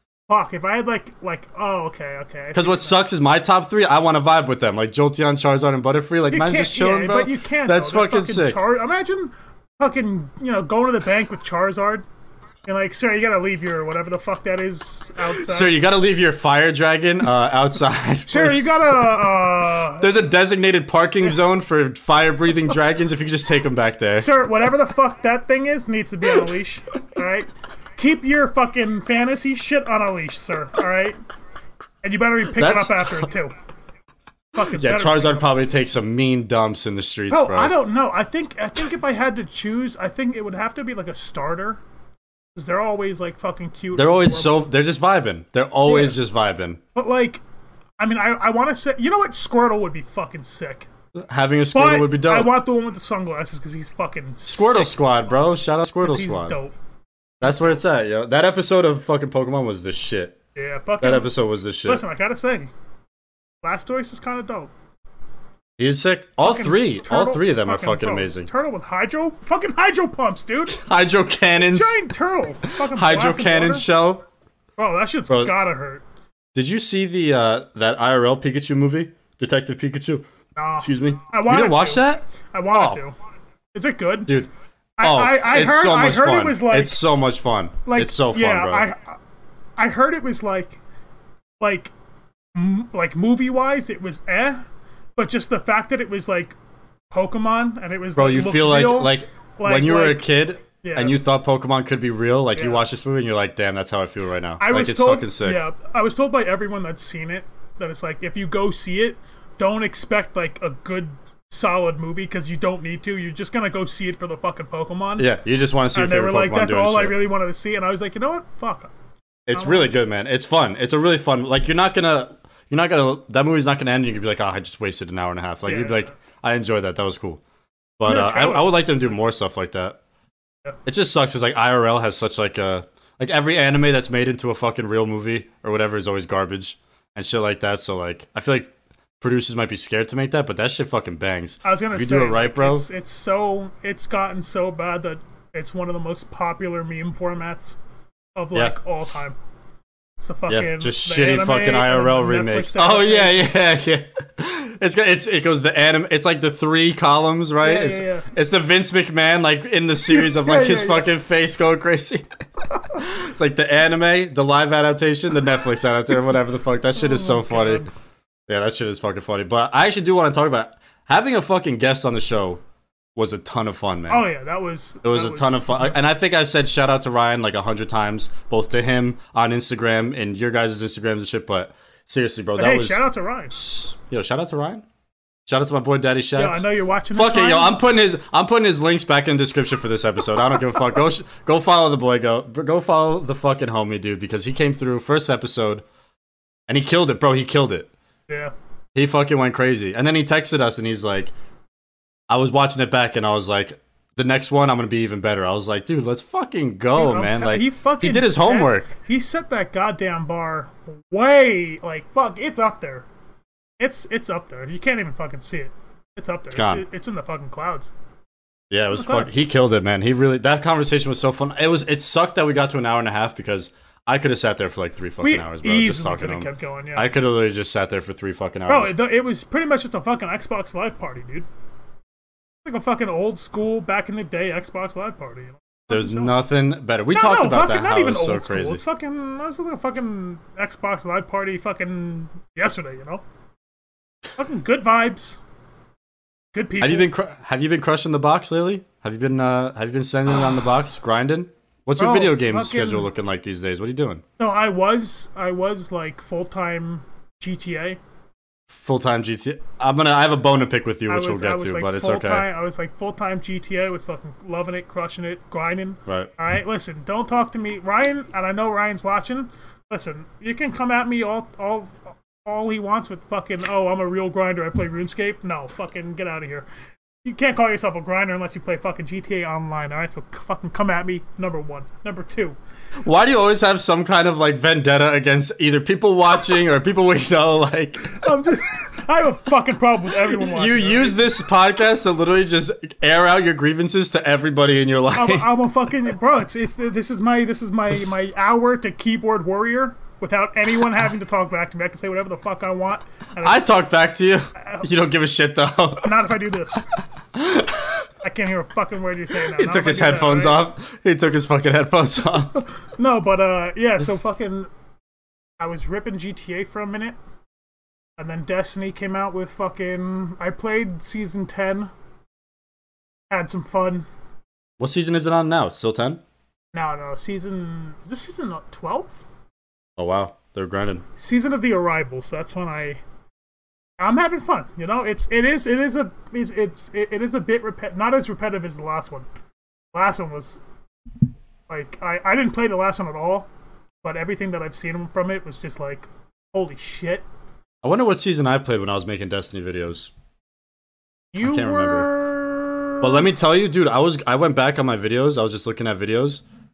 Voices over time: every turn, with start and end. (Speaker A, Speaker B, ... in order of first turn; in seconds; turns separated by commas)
Speaker A: 0.3-3.0, Speaker B: 2.5-8.6, Speaker A: 6.3-12.1, Speaker A: 12.7-15.8, Speaker B: 15.4-19.0, Speaker A: 18.3-20.3, Speaker B: 19.9-24.3, Speaker A: 24.2-31.2, Speaker A: 32.0-33.5, Speaker B: 32.5-33.3, Speaker A: 34.5-35.5, Speaker B: 34.7-37.7, Speaker A: 37.3-41.8, Speaker A: 42.5-44.7, Speaker B: 43.9-46.8, Speaker A: 45.9-46.2, Speaker A: 47.0-47.4, Speaker A: 48.0-50.9, Speaker B: 51.3-52.5, Speaker A: 51.7-55.1, Speaker B: 54.5-56.6, Speaker A: 56.0-56.8, Speaker B: 57.4-60.4, Speaker A: 57.4-57.8, Speaker A: 60.5-61.3, Speaker B: 61.0-62.0, Speaker A: 61.9-62.7, Speaker A: 63.6-64.7, Speaker B: 65.8-68.5, Speaker A: 66.4-70.8, Speaker B: 70.7-72.0, Speaker A: 71.6-73.9, Speaker B: 72.7-74.2, Speaker A: 74.8-76.0, Speaker B: 75.3-75.5, Speaker B: 76.5-80.3, Speaker A: 80.6-83.1, Speaker B: 80.8-83.0, Speaker A: 83.7-84.3, Speaker B: 84.3-88.9, Speaker A: 85.0-87.0, Speaker A: 87.9-89.2, Speaker A: 89.8-90.8, Speaker A: 91.6-91.9, Speaker A: 92.5-94.6, Speaker A: 95.2-96.6, Speaker A: 97.1-100.3, Speaker B: 98.2-105.6, Speaker A: 100.8-101.2, Speaker A: 102.6-102.8, Speaker A: 104.6-115.3, Speaker B: 115.2-117.2, Speaker A: 115.9-118.9, Speaker B: 119.5-127.4, Speaker A: 119.5-119.9, Speaker A: 125.7-126.1, Speaker B: 128.0-130.0, Speaker A: 128.1-129.2, Speaker B: 130.9-142.9, Speaker A: 141.6-147.8, Speaker A: 148.4-149.4, Speaker A: 150.2-153.5, Speaker B: 150.5-167.9, Speaker A: 157.6-158.3, Speaker A: 160.1-161.1, Speaker A: 167.0-167.9, Speaker B: 168.5-172.6, Speaker B: 173.2-174.3, Speaker A: 174.1-176.0, Speaker B: 175.0-184.8, Speaker A: 182.6-183.5, Speaker B: 185.5-195.8, Speaker A: 186.4-187.8, Speaker B: 196.7-197.9, Speaker A: 198.3-198.5, Speaker B: 198.9-201.3, Speaker B: 202.3-208.9, Speaker A: 206.9-213.1, Speaker A: 213.8-217.9, Speaker B: 216.5-216.8, Speaker B: 218.7-228.9, Speaker A: 218.9-219.3, Speaker A: 225.2-227.1, Speaker A: 228.7-231.5, Speaker A: 232.7-236.3, Speaker B: 235.9-238.8, Speaker A: 237.1-243.2, Speaker A: 244.4-245.4, Speaker A: 246.5-247.1, Speaker B: 246.8-254.2, Speaker A: 252.0-253.1, Speaker A: 254.4-258.0, Speaker B: 258.7-262.5, Speaker A: 261.1-276.7, Speaker A: 277.2-282.6, Speaker B: 283.0-288.2, Speaker A: 288.1-291.2, Speaker B: 290.4-295.5, Speaker A: 295.1-303.7, Speaker B: 303.4-306.1, Speaker A: 304.6-304.9, Speaker A: 306.0-306.9, Speaker B: 307.4-308.1, Speaker A: 308.2-310.6, Speaker B: 309.5-312.6, Speaker A: 312.9-314.7, Speaker A: 315.6-317.2, Speaker A: 318.2-321.9, Speaker A: 323.3-324.1, Speaker B: 324.8-326.2, Speaker A: 326.7-329.3, Speaker B: 330.0-331.1, Speaker A: 331.2-333.0, Speaker A: 334.0-339.3, Speaker A: 339.9-340.6, Speaker A: 341.7-343.5, Speaker A: 344.0-347.2, Speaker B: 347.8-350.1, Speaker A: 351.3-353.3, Speaker B: 351.4-352.1, Speaker B: 353.0-356.4